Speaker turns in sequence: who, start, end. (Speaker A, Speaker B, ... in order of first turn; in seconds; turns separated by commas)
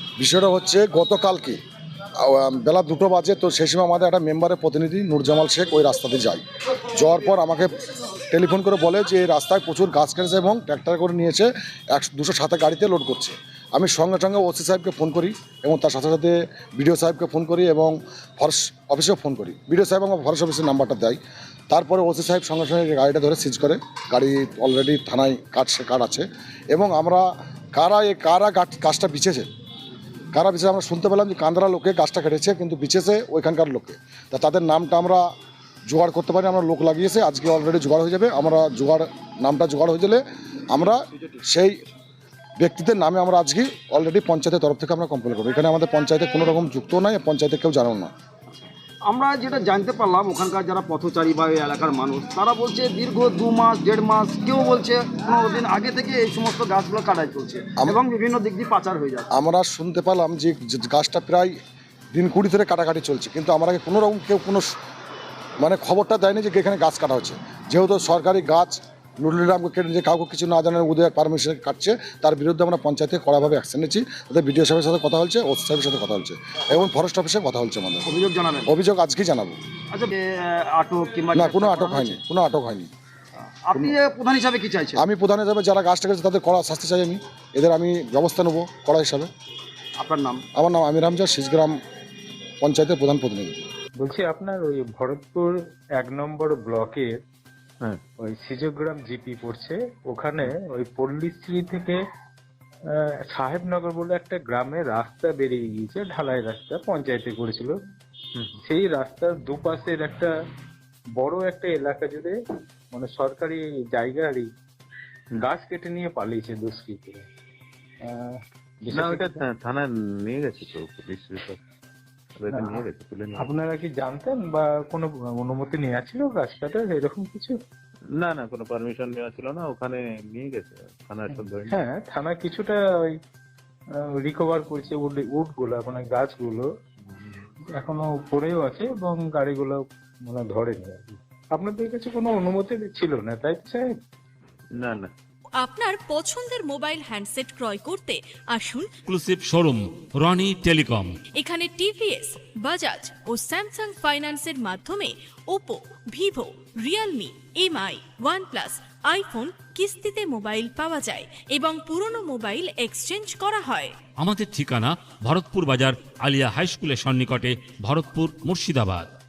Speaker A: 0.2-1.6, Speaker A: 2.2-7.7, Speaker A: 8.3-21.2, Speaker A: 21.7-29.5, Speaker A: 30.3-35.2, Speaker A: 35.9-41.8, Speaker A: 42.6-48.1, Speaker B: 49.0-59.2, Speaker A: 59.3-61.6, Speaker A: 62.1-64.8, Speaker A: 65.6-78.1, Speaker B: 78.0-78.7, Speaker A: 78.7-79.6, Speaker B: 79.9-82.2, Speaker A: 81.3-82.9, Speaker B: 83.6-85.0, Speaker A: 83.7-84.0, Speaker A: 84.9-89.3, Speaker B: 90.0-90.4, Speaker A: 90.5-91.8, Speaker A: 92.6-93.7, Speaker C: 94.0-97.1, Speaker C: 98.2-102.0, Speaker C: 103.3-107.8, Speaker C: 108.6-110.3, Speaker C: 111.2-112.4, Speaker C: 112.9-114.5, Speaker C: 115.4-117.3, Speaker C: 118.0-119.4, Speaker D: 118.9-121.6, Speaker D: 122.4-123.5, Speaker C: 122.5-127.6, Speaker D: 128.2-131.8, Speaker C: 131.3-133.1, Speaker C: 134.2-136.7, Speaker C: 137.7-143.9, Speaker D: 144.7-145.1, Speaker E: 145.6-148.9, Speaker F: 149.1-151.2, Speaker E: 151.4-163.9, Speaker F: 164.2-169.1